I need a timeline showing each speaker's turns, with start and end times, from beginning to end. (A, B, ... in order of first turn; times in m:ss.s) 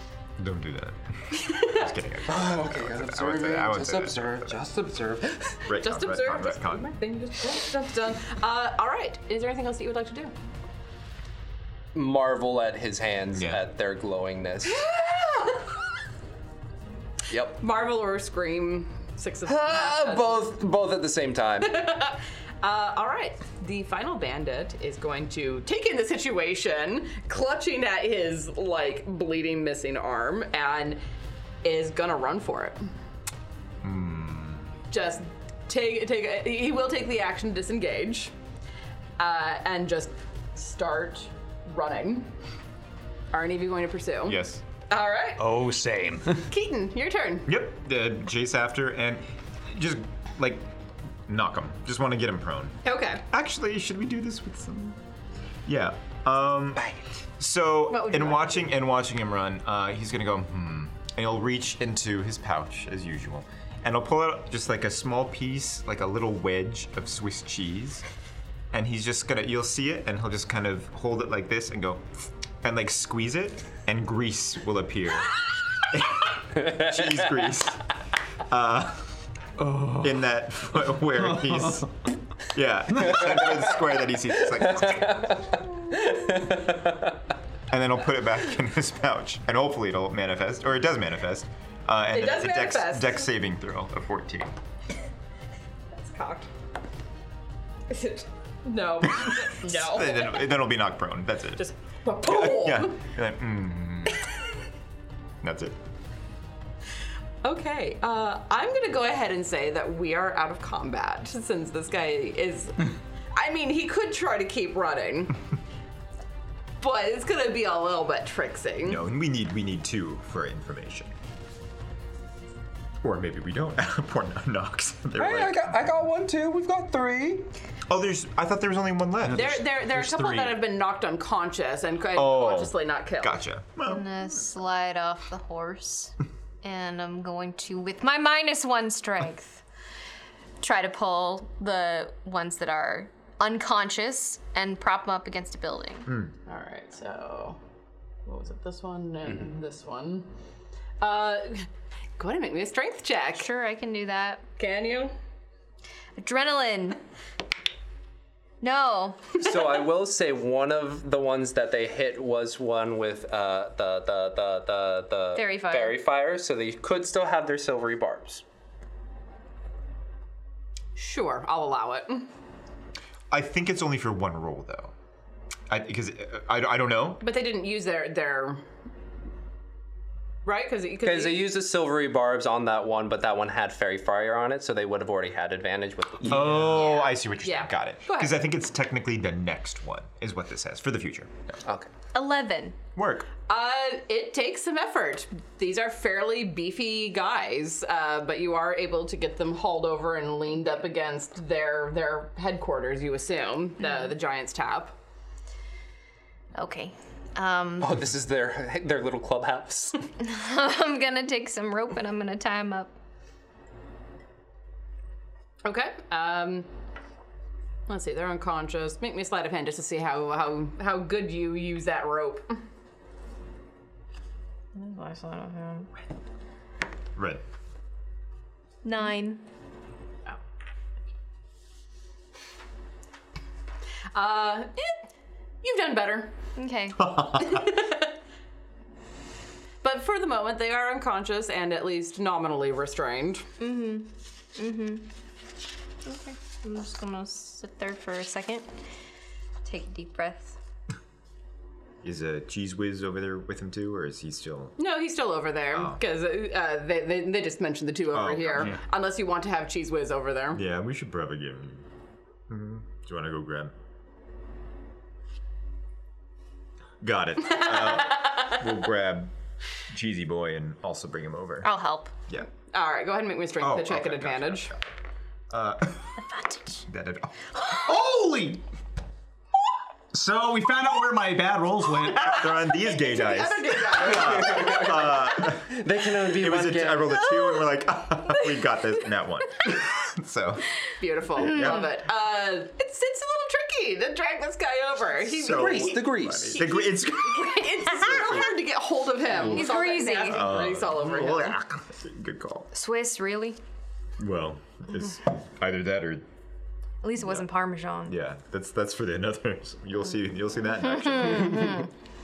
0:00.4-0:04.5 A
0:01.3-0:01.8 B
0:02.3-0:05.6 C
0:05.6-0:06.9 A
0:05.8-0:10.3 B
0:11.9-0:14.9 C
0:14.6-0:15.8 B
0:17.3-0:17.6 C
0:17.6-0:20.5 B
0:19.5-0:21.7 C
0:21.6-0:31.0 B
0:31.6-0:32.8 B
0:33.8-0:34.7 A
0:34.9-0:38.3 B
0:39.2-0:42.3 B
0:43.3-0:45.4 B
0:44.3-0:44.6 A
0:45.4-0:46.5 D
0:46.5-0:47.5 B
0:47.5-0:50.7 A
0:51.3-0:55.0 A
0:52.8-0:53.2 B
0:55.7-0:56.8 A
0:57.4-1:08.0 A
0:57.9-0:58.7 B
1:08.7-1:12.0 A
1:12.6-1:17.9 A
1:16.6-1:17.2 C
1:18.5-1:19.1 A
1:19.6-1:20.2 D
1:20.0-1:25.4 A
1:21.2-1:21.9 D
1:23.0-1:23.2 D
1:24.4-1:27.2 C
1:27.7-1:34.5 A
1:32.1-1:33.3 B
1:35.9-1:36.5 B
1:37.9-1:40.4 B
1:39.2-1:41.6 A
1:41.6-1:43.0 B
1:42.2-1:44.2 A
1:45.4-1:45.8 A
1:47.4-1:55.4 B
1:56.8-1:59.0 B
1:58.8-2:01.1 A
2:03.0-2:06.0 A
2:05.2-2:07.5 C
2:07.9-2:10.4 A
2:09.3-2:13.4 B
2:12.2-2:14.1 A
2:13.8-2:19.6 E
2:20.6-2:26.1 E
2:26.5-2:27.6 B
2:28.3-2:30.3 B
2:31.0-2:31.7 B
2:32.2-2:33.5 B
2:33.4-2:34.4 E
2:34.6-2:35.2 B
2:36.2-2:37.0 E
2:38.6-2:39.4 E
2:39.3-2:48.4 C
2:45.4-2:46.0 E
2:51.0-2:52.3 B
2:53.3-2:54.9 A
2:55.7-2:57.2 A
2:57.2-2:58.6 B
3:00.4-3:01.5 B
3:01.0-3:06.7 C
3:06.2-3:06.9 D
3:06.3-3:11.6 A
3:06.8-3:08.4 B
3:12.1-3:12.8 E
3:13.0-3:13.3 A
3:13.5-3:25.0 B
3:23.8-3:24.1 E
3:26.6-3:28.0 E
3:27.8-3:30.0 C
3:30.2-3:32.9 E
3:35.6-3:36.7 B
3:37.9-3:42.6 B
3:44.7-3:45.9 E
3:47.2-3:47.4 A
3:48.8-3:49.4 E
3:54.1-3:55.1 B
3:55.6-3:56.3 B
3:56.6-3:57.1 E
3:57.0-3:57.6 A
3:57.4-3:58.1 B
3:59.8-4:03.5 B
4:03.6-4:05.1 E
4:06.0-4:08.7 E
4:09.6-4:10.6 E
4:12.0-4:14.8 A
4:14.8-4:20.6 B
4:15.7-4:16.0 A
4:18.1-4:18.8 A
4:20.6-4:21.8 A
4:22.5-4:23.7 A
4:27.0-4:29.3 A
4:27.5-4:28.5 B
4:29.9-4:31.7 A
4:31.6-4:32.1 E
4:32.6-4:34.7 B
4:33.6-4:34.8 A
4:35.5-4:36.2 A
4:36.2-4:36.8 E
4:36.9-4:37.9 A
4:37.8-4:38.6 D
4:40.1-4:42.4 D
4:42.2-4:50.7 A
4:42.7-4:45.1 B
4:44.1-4:47.3 C
4:51.0-5:01.6 B
4:51.4-4:51.9 A
4:51.5-4:51.9 E
4:55.3-4:58.5 A
4:55.5-4:56.6 C
4:59.3-5:02.7 A
4:59.4-5:00.5 E
5:02.7-5:03.6 E
5:04.2-5:06.2 A
5:07.0-5:08.2 E
5:07.2-5:07.4 A
5:08.1-5:11.8 A
5:10.9-5:11.9 E